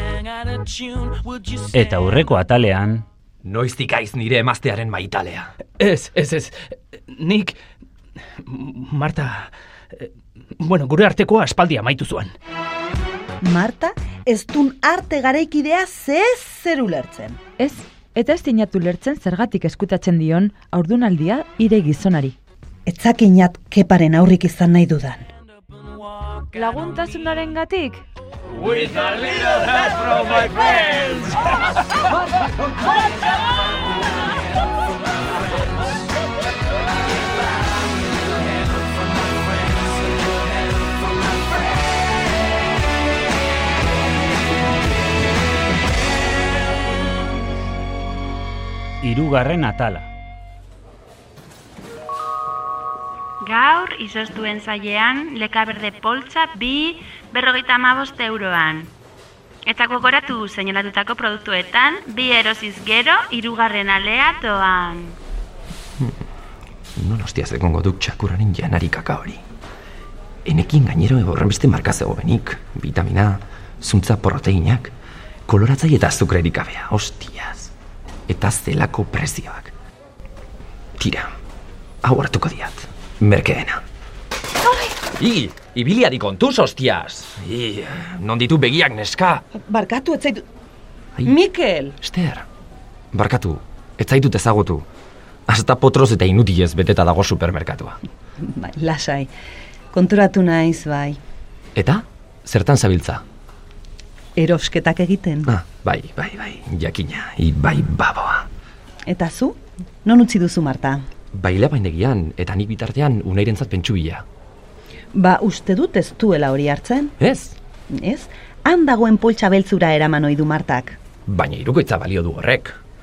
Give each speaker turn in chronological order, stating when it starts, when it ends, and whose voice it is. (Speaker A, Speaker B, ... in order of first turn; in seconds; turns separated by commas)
Speaker A: 1.0-1.6, Speaker B: 1.7-3.0, Speaker C: 3.4-5.5, Speaker A: 5.8-6.6, Speaker A: 7.1-7.6, Speaker A: 8.4-9.5, Speaker A: 10.6-12.3, Speaker D: 13.4-17.4, Speaker E: 17.6-22.3, Speaker D: 22.9-25.2, Speaker E: 26.5-28.0, Speaker A: 28.8-30.5, Speaker B: 49.0-50.1, Speaker F: 53.4-58.9, Speaker F: 59.6-65.2, Speaker C: 67.0-69.4, Speaker C: 70.4-74.9, Speaker C: 75.5-77.7, Speaker C: 78.3-79.7, Speaker C: 81.0-81.3, Speaker C: 82.0-83.8, Speaker D: 84.6-84.9, Speaker C: 85.2-89.4, Speaker D: 89.5-90.4, Speaker D: 91.2-92.0, Speaker C: 92.0-92.5, Speaker C: 93.1-94.8, Speaker C: 95.5-98.0, Speaker D: 98.4-99.3, Speaker D: 99.9-101.2, Speaker C: 101.7-103.2, Speaker D: 104.3-105.5, Speaker C: 105.5-108.5, Speaker D: 109.1-111.0, Speaker C: 111.3-114.2, Speaker D: 115.1-117.1, Speaker C: 117.2-117.6, Speaker D: 117.9-121.0, Speaker C: 121.3-122.8